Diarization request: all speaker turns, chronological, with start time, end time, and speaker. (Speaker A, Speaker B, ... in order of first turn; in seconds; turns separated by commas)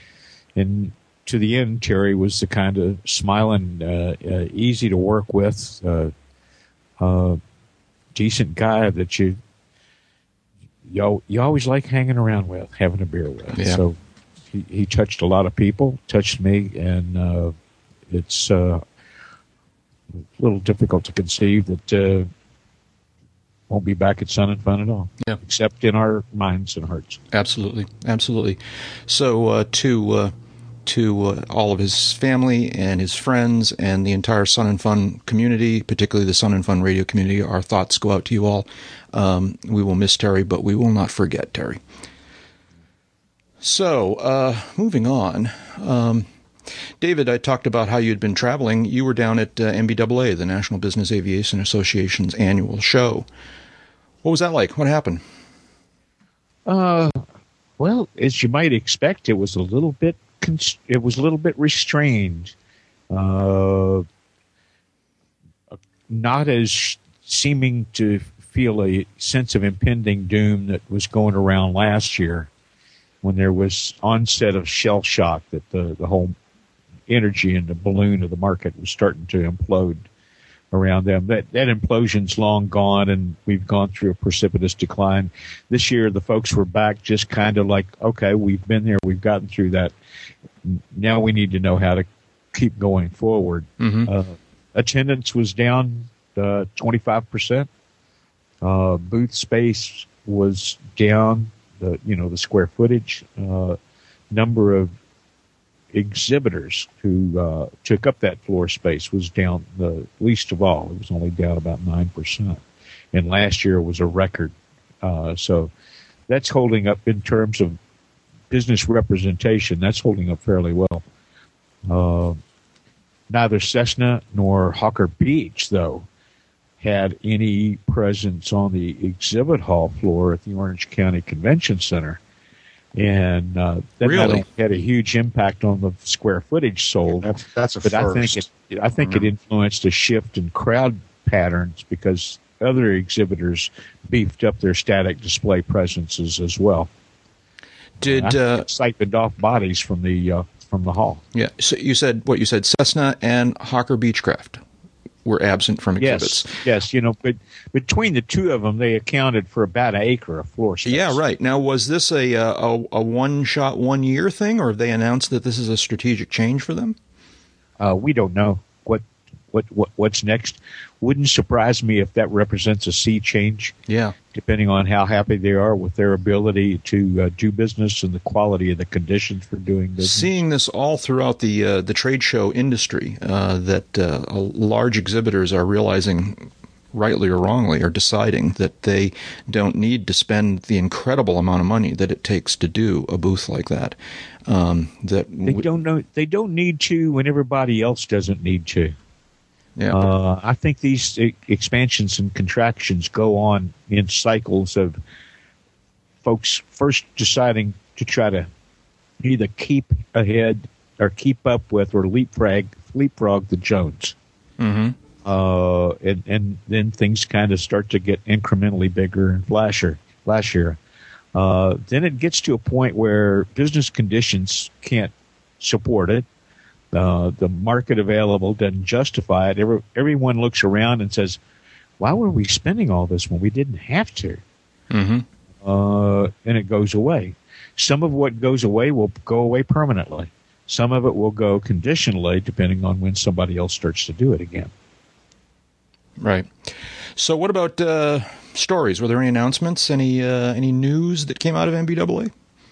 Speaker A: 0.6-6.1, Speaker A: 7.0-7.4, Speaker A: 8.2-9.4, Speaker A: 10.9-14.0, Speaker B: 13.6-13.8, Speaker A: 14.5-17.6, Speaker A: 18.1-18.8, Speaker A: 20.4-22.3, Speaker A: 23.7-27.2, Speaker B: 27.3-30.3, Speaker B: 30.9-41.8, Speaker B: 43.6-46.3, Speaker B: 47.0-53.3, Speaker B: 54.2-55.2, Speaker A: 56.7-57.2, Speaker A: 57.8-62.5, Speaker A: 63.1-64.1, Speaker A: 65.7-72.5, Speaker A: 73.2-76.4, Speaker A: 77.1-80.1, Speaker A: 80.7-89.9, Speaker A: 90.6-97.7, Speaker B: 93.8-94.1, Speaker A: 98.6-103.8, Speaker A: 104.3-104.9, Speaker A: 105.9-112.6, Speaker A: 113.1-115.7, Speaker A: 116.3-117.8, Speaker A: 118.5-121.0, Speaker A: 121.9-122.4, Speaker A: 123.3-126.1, Speaker A: 126.8-132.2, Speaker A: 132.9-137.3, Speaker B: 134.0-134.4, Speaker C: 137.1-139.3, Speaker A: 137.8-146.9, Speaker B: 148.0-148.7, Speaker A: 148.0-151.2, Speaker B: 151.3-154.6, Speaker B: 155.2-156.6, Speaker A: 156.0-161.2, Speaker B: 160.8-167.0, Speaker A: 167.8-173.8, Speaker B: 173.9-174.2, Speaker A: 174.3-180.3, Speaker B: 180.0-194.0, Speaker B: 194.5-195.7, Speaker A: 195.4-198.9, Speaker A: 199.9-205.0, Speaker A: 206.2-208.5, Speaker A: 209.2-214.2, Speaker B: 214.6-215.0, Speaker A: 215.2-220.8, Speaker A: 221.3-226.3, Speaker A: 226.9-231.4, Speaker A: 232.0-234.4, Speaker B: 234.9-235.3, Speaker A: 235.6-244.7, Speaker B: 246.2-252.3